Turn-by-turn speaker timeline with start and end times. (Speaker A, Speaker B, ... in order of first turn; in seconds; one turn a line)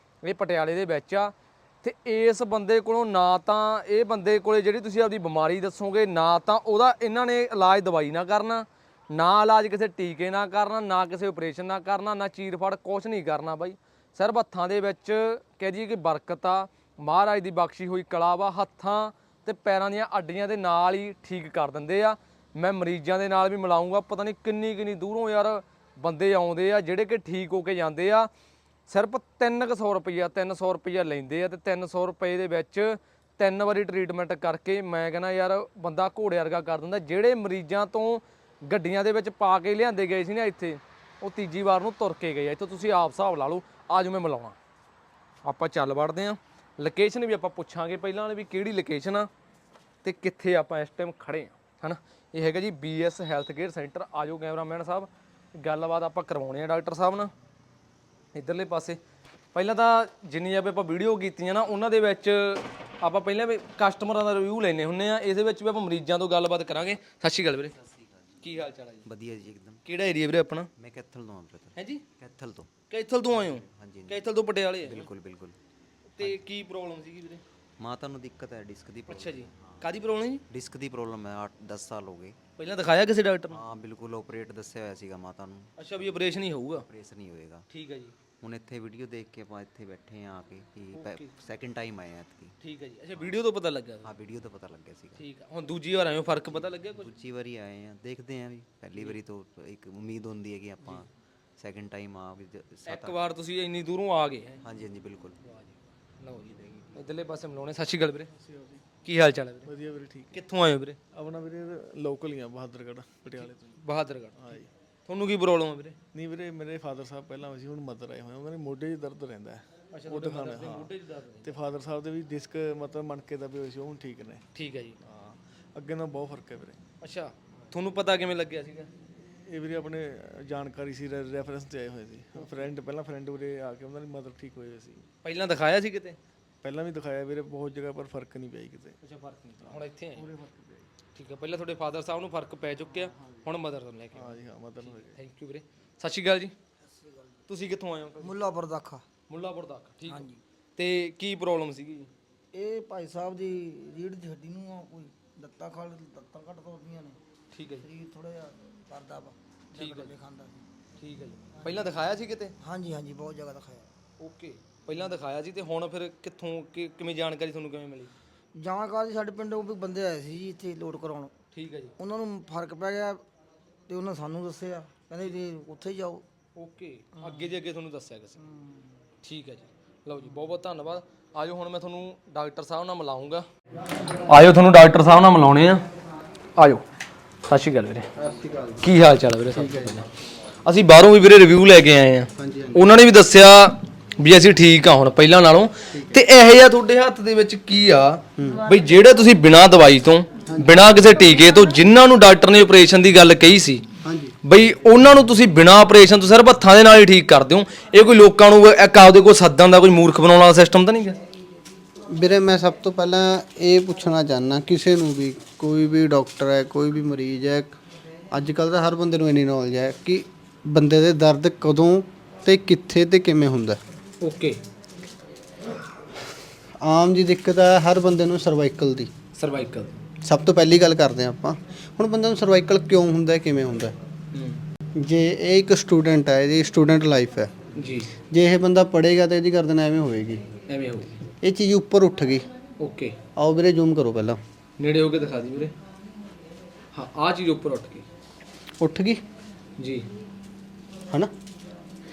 Speaker A: 0.2-28.3
Speaker A: 28.9-44.6
Speaker A: 45.5-49.3
Speaker A: 50.0-57.3
Speaker A: 58.3-59.0
Speaker A: 59.5-67.8
Speaker B: 67.8-68.5
Speaker A: 68.4-69.0
Speaker B: 69.0-69.8
Speaker A: 69.9-70.7
Speaker B: 70.8-72.7
Speaker A: 71.8-72.0
Speaker A: 72.9-75.1
Speaker B: 73.3-74.2
Speaker B: 74.8-75.6
Speaker A: 76.2-77.4
Speaker B: 77.8-79.8
Speaker A: 79.1-80.4
Speaker B: 80.5-82.4
Speaker A: 82.6-83.6
Speaker B: 83.5-86.2
Speaker A: 85.8-86.9
Speaker B: 86.9-87.7
Speaker A: 87.7-88.1
Speaker B: 88.4-92.6
Speaker A: 90.9-91.3
Speaker A: 92.6-94.1
Speaker B: 94.0-95.2
Speaker A: 95.2-97.1
Speaker B: 96.3-103.2
Speaker A: 102.8-104.6
Speaker B: 104.6-105.4
Speaker A: 106.2-108.3
Speaker B: 106.3-107.0
Speaker C: 108.4-108.8
Speaker A: 109.0-109.7
Speaker C: 109.7-110.4
Speaker A: 110.3-111.0
Speaker C: 111.1-113.8
Speaker A: 113.4-116.0
Speaker C: 114.4-114.7
Speaker C: 116.1-120.9
Speaker A: 119.9-121.5
Speaker C: 121.4-124.5
Speaker A: 124.5-125.0
Speaker C: 125.0-126.8
Speaker A: 127.0-128.9
Speaker C: 129.3-135.1
Speaker A: 135.2-136.2
Speaker C: 136.6-139.0
Speaker A: 139.0-140.2
Speaker C: 139.6-140.9
Speaker A: 141.2-146.5
Speaker C: 144.1-145.2
Speaker D: 146.8-147.4
Speaker A: 147.5-148.3
Speaker D: 148.2-149.0
Speaker A: 149.3-152.1
Speaker D: 150.1-150.4
Speaker D: 152.5-157.2
Speaker A: 157.5-157.9
Speaker D: 157.8-160.6
Speaker A: 159.8-160.1
Speaker A: 161.0-162.5
Speaker D: 161.5-161.9
Speaker D: 162.6-163.9
Speaker A: 164.2-168.1
Speaker D: 168.5-171.3
Speaker A: 171.5-171.9
Speaker D: 172.0-173.2
Speaker D: 173.9-176.2
Speaker A: 176.6-178.4
Speaker D: 178.4-178.8
Speaker A: 179.2-183.5
Speaker A: 184.2-185.8
Speaker A: 186.6-186.8
Speaker A: 187.5-188.1
Speaker E: 188.2-188.9
Speaker A: 188.8-190.1
Speaker E: 189.5-190.1
Speaker A: 190.7-203.8
Speaker E: 192.4-192.9
Speaker E: 195.9-196.2
Speaker E: 198.4-198.6
Speaker E: 200.5-200.8
Speaker E: 204.0-204.4
Speaker A: 204.4-211.2
Speaker E: 212.1-217.8
Speaker E: 218.3-223.8
Speaker A: 224.2-224.6
Speaker E: 226.8-229.1
Speaker A: 229.4-229.9
Speaker E: 230.2-233.9
Speaker A: 234.3-234.6
Speaker E: 234.9-237.6
Speaker A: 237.8-238.1
Speaker E: 238.2-240.4
Speaker A: 240.7-241.2
Speaker E: 241.4-242.5
Speaker A: 242.8-243.2
Speaker E: 243.4-244.4
Speaker A: 244.8-245.7
Speaker A: 246.9-248.1
Speaker E: 248.8-249.2
Speaker A: 249.8-250.1